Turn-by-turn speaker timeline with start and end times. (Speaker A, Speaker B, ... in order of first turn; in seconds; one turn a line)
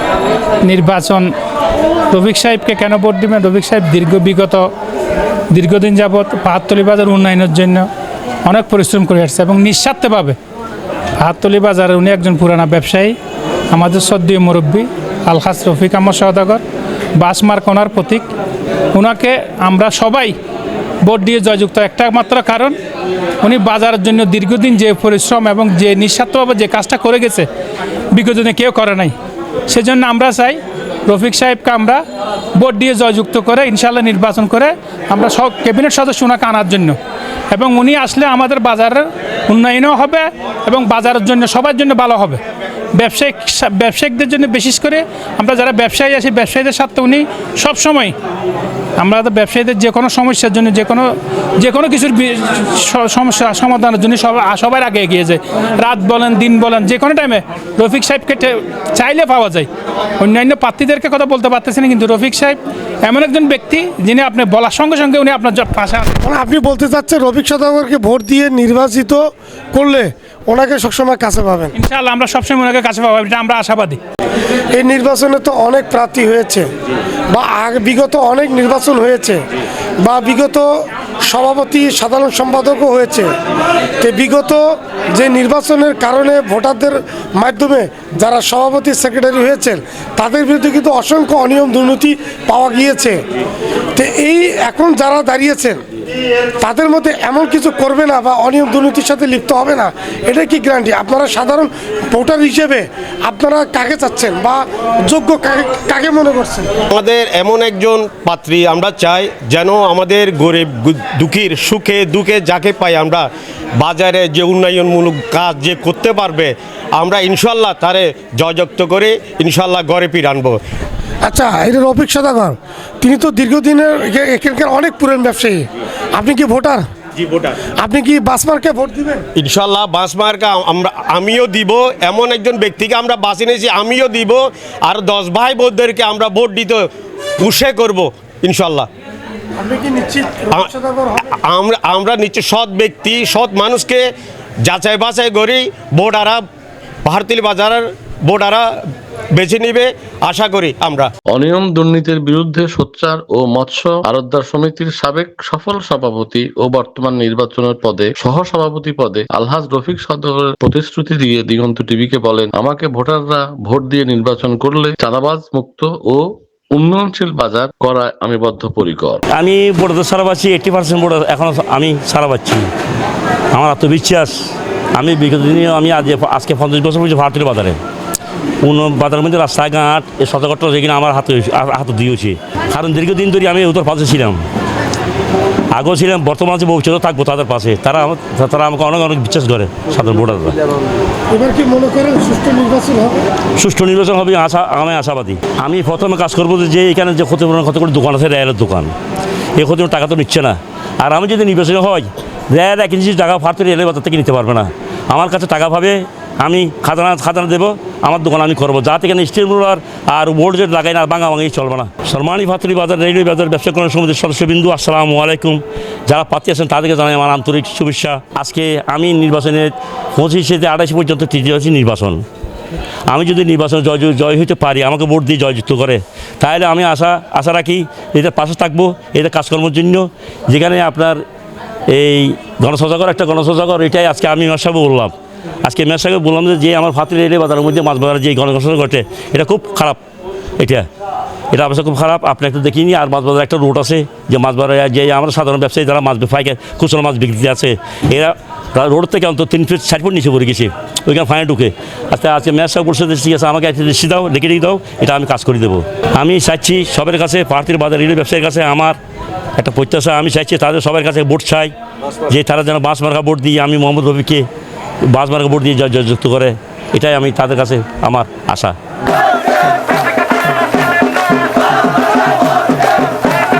Speaker A: 0.7-1.3
Speaker A: 2.1-4.7
Speaker A: 5.5-7.9
Speaker A: 8.4-10.4
Speaker A: 11.2-13.2
Speaker A: 13.7-16.6
Speaker A: 17.2-18.3
Speaker A: 18.9-20.4
Speaker A: 21.0-22.8
Speaker A: 23.4-27.5
Speaker A: 28.1-29.1
Speaker A: 29.7-32.0
Speaker A: 32.5-37.0
Speaker A: 37.5-42.4
Speaker A: 43.0-48.1
Speaker A: 49.0-66.2
Speaker B: 66.2-71.7
Speaker A: 71.8-74.0
Speaker B: 74.7-76.7
Speaker B: 77.3-79.4
Speaker B: 80.0-80.7
Speaker B: 81.3-83.3
Speaker B: 84.0-93.2
Speaker B: 94.0-95.8
Speaker B: 96.6-106.7
Speaker C: 106.9-113.3
Speaker C: 113.8-120.6
Speaker B: 121.2-125.6
Speaker B: 126.2-126.8
Speaker C: 127.2-127.5
Speaker B: 127.8-129.2
Speaker C: 129.4-136.8
Speaker C: 137.4-138.9
Speaker B: 139.6-141.2
Speaker C: 141.4-144.1
Speaker C: 144.7-146.4
Speaker C: 147.1-148.7
Speaker C: 149.4-151.1
Speaker D: 151.3-169.2
Speaker E: 169.3-172.7
Speaker E: 173.5-174.4
Speaker E: 174.9-177.8
Speaker E: 178.6-184.4
Speaker E: 185.7-190.6
Speaker B: 191.3-193.2
Speaker E: 193.6-198.9
Speaker E: 199.6-222.2
Speaker E: 223.1-231.2
Speaker E: 231.9-235.1
Speaker E: 235.7-240.0
Speaker E: 240.6-240.9
Speaker E: 241.5-259.0
Speaker E: 259.6-261.7
Speaker E: 262.3-264.5
Speaker E: 265.1-268.8